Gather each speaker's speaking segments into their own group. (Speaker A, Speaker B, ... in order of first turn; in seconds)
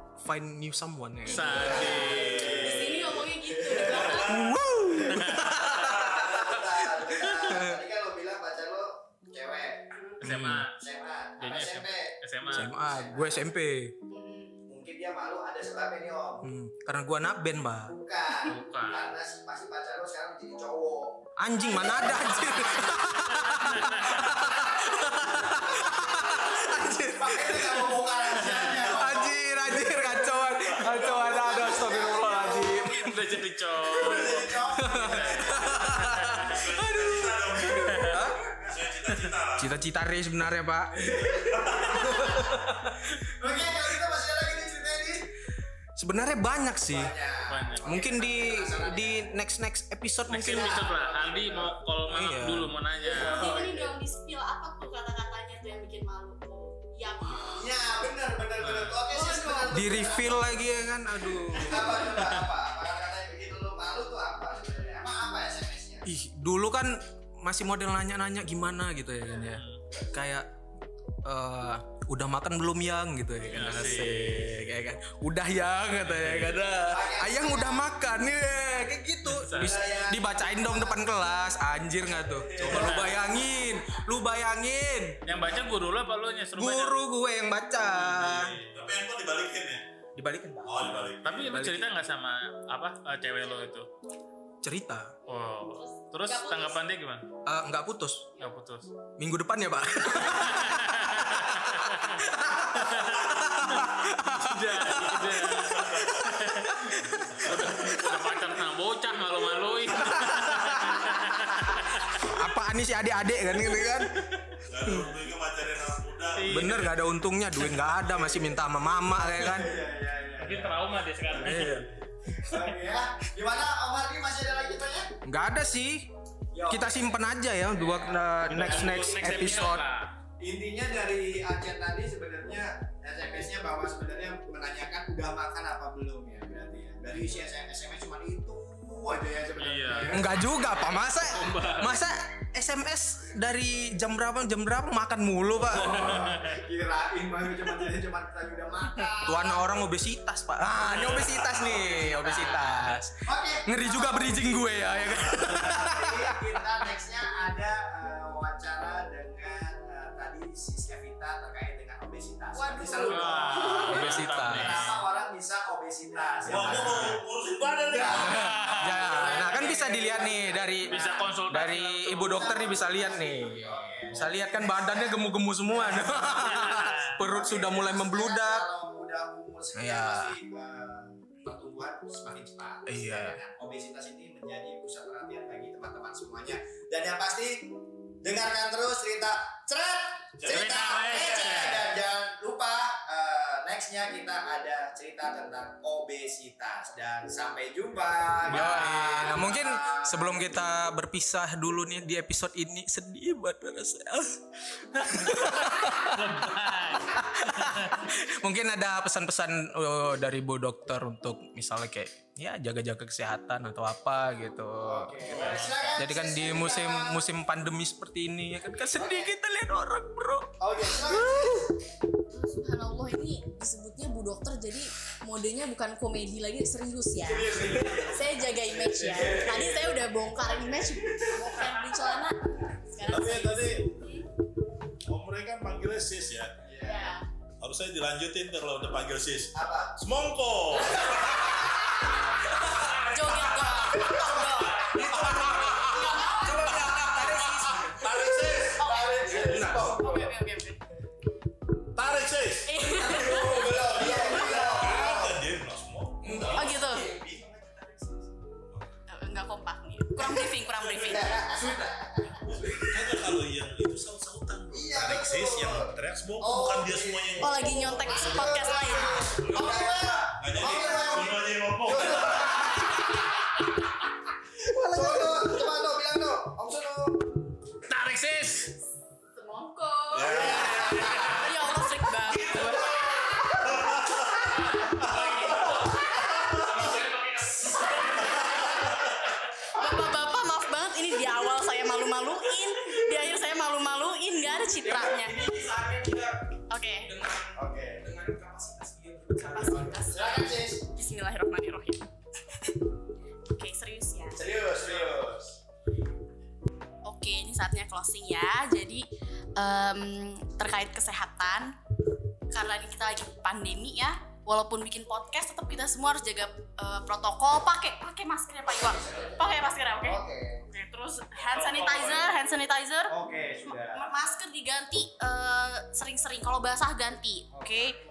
Speaker A: 0.2-2.1, 4.2-7.8, 10.2-10.6, 12.5-13.9, 16.4-17.9, 21.4-28.0, 28.8-33.2, 34.7-38.4, 39.6-41.0, 41.8-43.1, 46.0-47.1, 47.8-50.8, 52.1-52.7, 59.7-62.4, 66.0-70.5, 71.2-85.2, 86.5-88.5, 90.2-91.9, 94.6-95.1, 97.5-98.3, 99.2-107.4, 110.0-111.1, 112.2-114.3, 116.5-119.8, 121.4-121.9, 125.2-126.1, 126.7-129.8, 140.1-146.1, 149.2-156.6, 163.9-164.9, 168.1-178.7, 179.7-180.4, 182.9-183.4, 198.5-221.7, 245.1-248.0, 249.3-250.0, 253.1-254.9, 256.2-258.1, 269.5-270.2, 274.6-275.6, 294.8-300.1
Speaker B: 1.2-2.6, 5.1-5.7, 10.2-10.8, 11.4-12.7, 18.4-19.0, 23.3-24.4, 28.4-28.7, 32.9-36.6, 37.8-38.2, 47.5-47.9, 50.3-53.5, 58.6-59.0, 69.5-69.8, 73.5-74.6, 76.0-76.6, 79.2-79.8, 82.6-83.2, 85.2-87.0, 88.1-88.8, 91.2-93.9, 95.3-97.2, 98.4-98.9, 100.1-112.2, 116.3-117.0, 120.4-121.8, 128.5-130.1, 139.6-140.2, 141.0-142.0, 145.9-146.6, 163.0-165.0, 168.2-169.8, 170.8-172.7, 176.5-177.1, 190.5-191.8, 205.2-208.0, 215.2-216.1, 277.9-278.7, 280.7-281.3, 284.6-284.8, 285.5-288.5, 321.4-322.3
Speaker C: 1.4-4.3, 5.8-13.4, 14.7-16.5, 17.9-23.0, 24.6-33.1, 33.8-35.9, 38.4-38.7, 41.0-45.3, 46.8-49.3, 50.3-51.8, 53.0-53.9, 57.4-60.6, 61.4-66.0, 76.9-77.9, 79.6-81.0, 82.2-83.0, 118.0-118.6, 119.4-125.1, 126.5-129.6, 130.4-140.9, 145.7-149.7, 150.8-167.2, 167.9-171.4, 172.1-200.4, 214.8-217.2, 218.9-219.3, 220.6-221.6, 227.2-232.2, 236.6-237.1, 239.5-240.0, 243.6-245.6, 248.6-250.3, 253.2-255.4, 261.0-263.0, 264.7-273.0, 274.9-277.2, 280.3-281.5, 297.6-298.0, 300.1-300.8, 304.4-305.6, 318.8-319.4, 320.0-320.6, 323.1-324.1, 327.5-327.9
Speaker D: 1.7-4.6, 5.7-6.4, 28.5-29.2, 30.6-31.0, 34.1-34.4, 36.4-39.7, 41.1-42.1, 88.4-89.8, 90.6-91.5, 105.5-106.2, 107.3-108.0, 114.7-116.8, 155.2-155.6, 166.4-168.7, 190.4-190.8, 233.1-233.9, 235.1-236.5, 237.6-241.4, 242.9-243.8, 245.0-248.9, 251.9-252.8, 254.1-256.7, 260.7-261.4, 262.4-268.2, 269.4-269.7, 270.3-272.6, 280.1-281.4, 282.3-286.9, 288.3-288.9
Speaker E: 2.4-4.4, 14.1-14.6, 53.1-57.7, 59.1-59.7, 95.7-96.8, 162.5-163.9, 222.3-234.3, 236.8-237.2, 243.0-247.0, 248.7-250.8, 252.6-255.3, 256.5-257.1, 259.1-261.4, 267.4-269.3, 279.3-283.4, 284.5-286.3, 288.3-288.8, 289.7-295.3, 296.7-297.1, 299.5-302.1, 303.5-304.4, 307.0-311.8, 312.5-323.1, 323.7-328.0